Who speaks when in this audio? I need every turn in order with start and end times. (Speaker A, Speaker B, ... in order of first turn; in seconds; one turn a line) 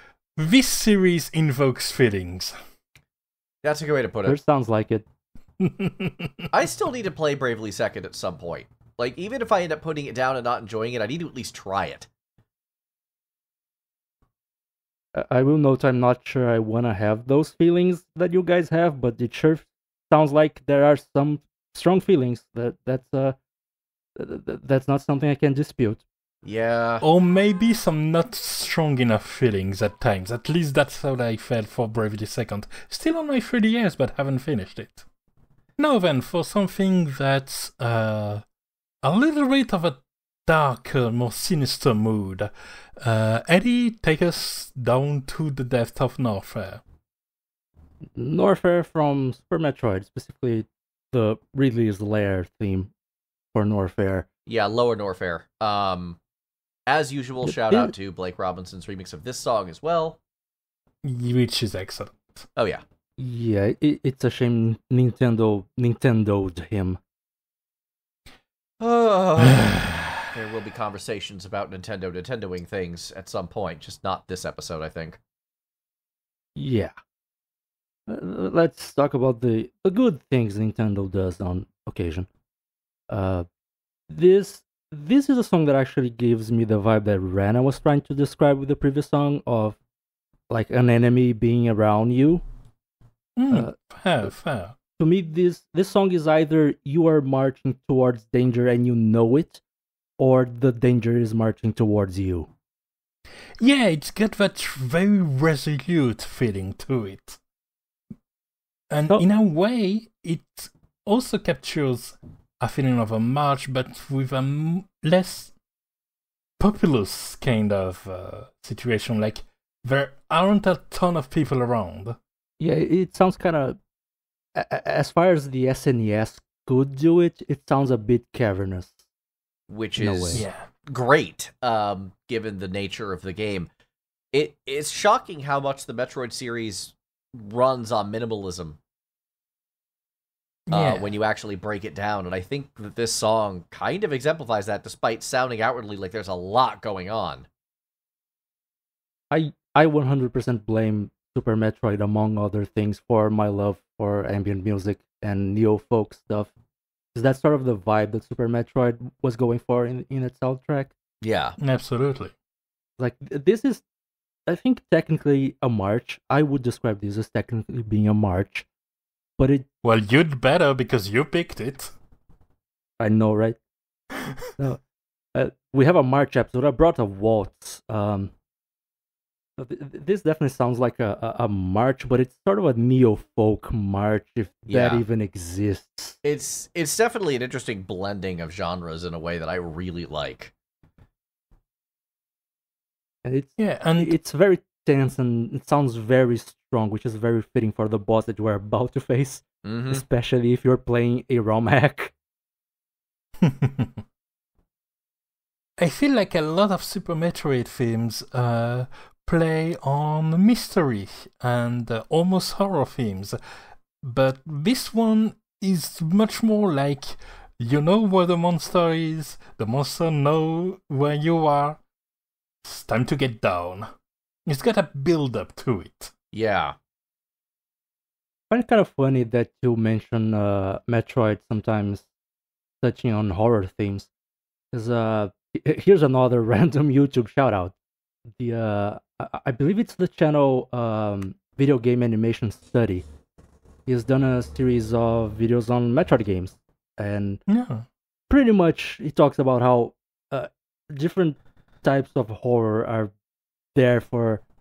Speaker A: 0.4-2.6
Speaker B: 3.6-4.4
Speaker C: 4.3-5.0
Speaker A: 5.6-6.5
Speaker B: 6.5-12.1
Speaker C: 15.1-23.4
Speaker C: 24.2-26.1
Speaker B: 26.4-27.0
Speaker A: 27.0-35.0
Speaker A: 35.8-38.4
Speaker A: 39.0-46.8
Speaker C: 48.2-52.9
Speaker C: 53.5-54.3
Speaker B: 54.5-56.2
Speaker B: 56.9-60.2
Speaker C: 57.4-57.9
Speaker A: 61.0-62.5
Speaker B: 62.6-62.8
Speaker C: 63.2-67.0
Speaker B: 68.8-75.2
Speaker A: 69.6-70.1
Speaker C: 76.6-77.0
Speaker C: 78.1-82.3
Speaker C: 83.1-83.5
Speaker C: 84.1-89.8
Speaker C: 90.5-92.4
Speaker A: 93.4-94.8
Speaker C: 93.5-94.3
Speaker C: 95.0-99.6
Speaker C: 100.2-102.5
Speaker A: 103.6-107.4
Speaker A: 108.9-115.5
Speaker A: 116.6-122.2
Speaker C: 122.6-123.8
Speaker C: 124.5-129.0
Speaker B: 129.7-133.7
Speaker C: 130.0-130.4
Speaker A: 130.3-130.7
Speaker B: 134.3-138.8
Speaker A: 140.7-141.1
Speaker B: 140.7-147.5
Speaker C: 149.3-156.5
Speaker C: 157.1-160.9
Speaker B: 161.2-161.6
Speaker A: 161.6-162.3
Speaker C: 163.0-163.8
Speaker C: 164.5-168.7
Speaker C: 169.4-169.7
Speaker A: 169.8-171.9
Speaker C: 173.0-173.6
Speaker C: 175.3-178.3
Speaker C: 179.6-186.2
Speaker B: 184.7-185.0
Speaker B: 186.2-190.5
Speaker C: 193.2-202.1
Speaker A: 193.6-194.2
Speaker B: 199.6-200.0
Speaker A: 203.4-204.0
Speaker A: 205.8-213.4
Speaker A: 214.0-221.8
Speaker A: 222.6-223.9
Speaker A: 224.5-226.1
Speaker B: 226.3-226.8
Speaker C: 228.5-232.1
Speaker C: 232.8-234.1
Speaker C: 234.7-237.8
Speaker C: 238.4-243.1
Speaker C: 243.9-247.4
Speaker A: 247.5-247.9
Speaker C: 248.3-253.1
Speaker C: 253.8-254.4